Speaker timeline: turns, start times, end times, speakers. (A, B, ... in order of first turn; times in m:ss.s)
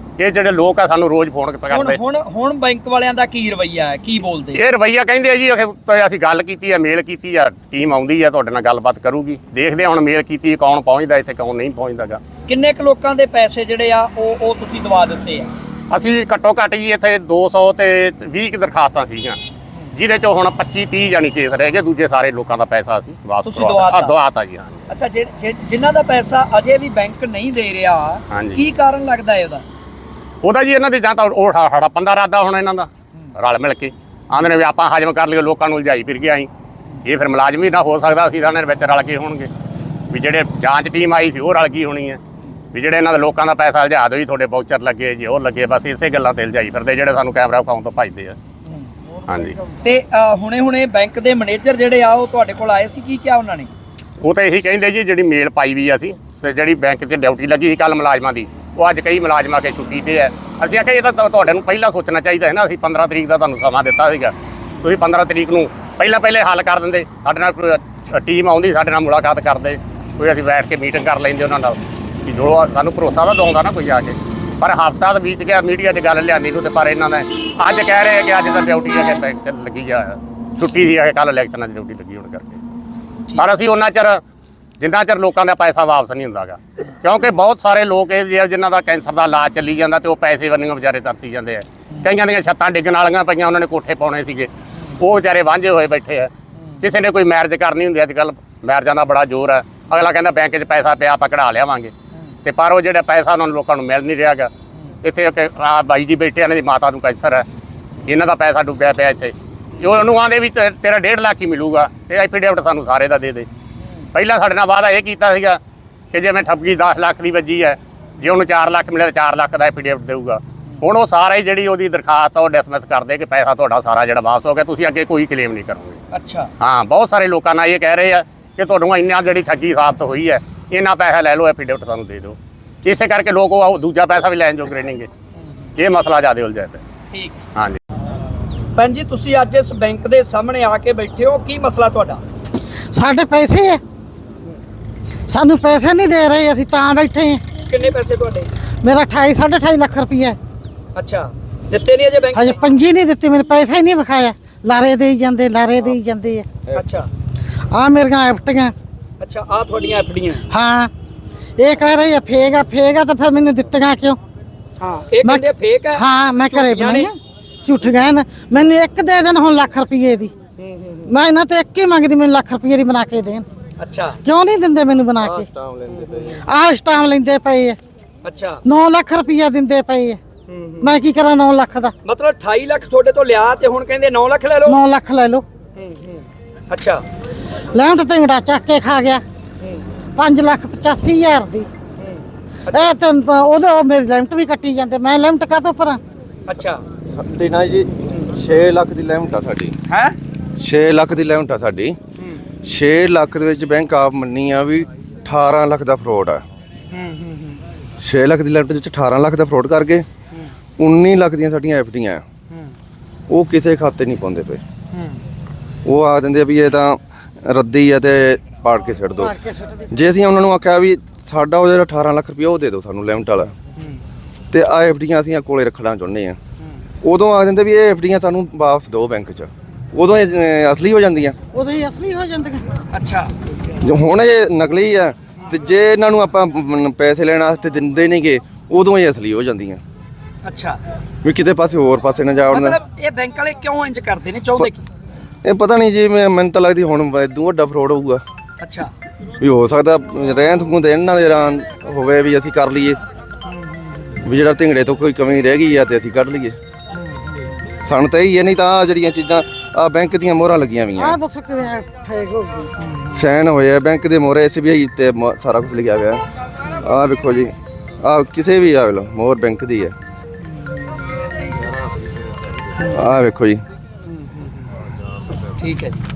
0:00.2-0:02.0 A
0:01.7-0:04.6 B
0:04.5-0:12.2 A
0:12.5-0:15.5 B
0:15.9-0:19.4 A
0:19.9-0:24.9 A
0:23.4-0:24.1 B
0:24.9-0:29.6 B
0:28.3-0:28.6 A
0:30.4-0:36.5 A
0:37.0-0:39.5 A
0:40.1-0:42.2 A
0:42.7-0:48.4 A
0:49.3-0:49.6 A
0:49.8-0:53.7 B
0:54.2-1:22.6 A
1:23.4-1:24.2 A
1:24.8-1:41.9 A
1:42.4-1:44.5 A
1:45.0-1:47.5 A
1:48.0-1:53.5 A
1:54.1-1:55.6 A
1:56.1-2:06.0 A
2:06.1-2:06.5 B
2:06.6-2:15.1 A
2:15.8-2:16.8 A
2:17.1-2:17.4 B
2:17.6-2:17.8 A
2:18.8-2:22.2 B
2:22.9-2:23.8 C
2:25.3-2:27.4 C
2:27.7-2:28.5 B
2:28.8-2:30.4 C
2:31.0-2:32.6 B
2:32.3-2:36.5 C
2:36.7-2:37.1 B
2:37.7-2:38.7 C
2:39.2-2:40.4 B
2:40.5-2:40.9 C
2:41.6-2:44.2 C
2:44.8-2:47.1 B
2:45.2-2:50.3 C
2:50.6-2:51.1 B
2:51.1-2:53.5 C
2:53.8-2:54.2 B
2:54.2-2:55.5 C
2:55.2-2:56.3 D
2:55.9-2:56.3 B
2:56.4-2:57.8 C
2:58.2-2:58.6 B
2:58.6-3:00.2 C
3:00.5-3:01.0 B
3:00.8-3:01.9 C
3:02.0-3:04.8 B
3:04.6-3:05.4 C
3:05.8-3:07.0 B
3:07.7-3:09.2 C
3:10.2-3:11.7 C
3:12.0-3:13.0 B
3:12.7-3:16.0 C
3:16.5-3:16.8 B
3:17.1-3:19.8 D
3:18.1-3:18.3 B
3:19.9-3:20.2 B
3:20.6-3:22.0 D
3:22.6-3:26.4 D
3:26.9-3:27.5 B
3:28.0-3:30.1 D
3:30.8-3:32.2 D
3:33.3-3:34.6 D
3:35.8-3:39.4 D
3:39.2-3:39.9 C
3:39.9-3:43.5 D
3:44.5-3:46.4 D
3:47.0-3:51.4 D
3:51.5-3:52.7 C
3:52.9-3:53.3 B
3:53.8-3:59.8 D
4:00.4-4:00.8 B
4:01.2-4:02.8 D
4:02.5-4:04.9 B
4:05.4-4:08.2 D
4:08.6-4:08.9 B
4:09.4-4:13.0 D
4:14.2-4:16.6 D
4:17.8-4:21.2 D
4:21.0-4:22.7 C
4:23.1-4:26.2 D
4:26.8-4:30.0 D
4:32.8-4:33.6 D
4:35.6-4:36.0 B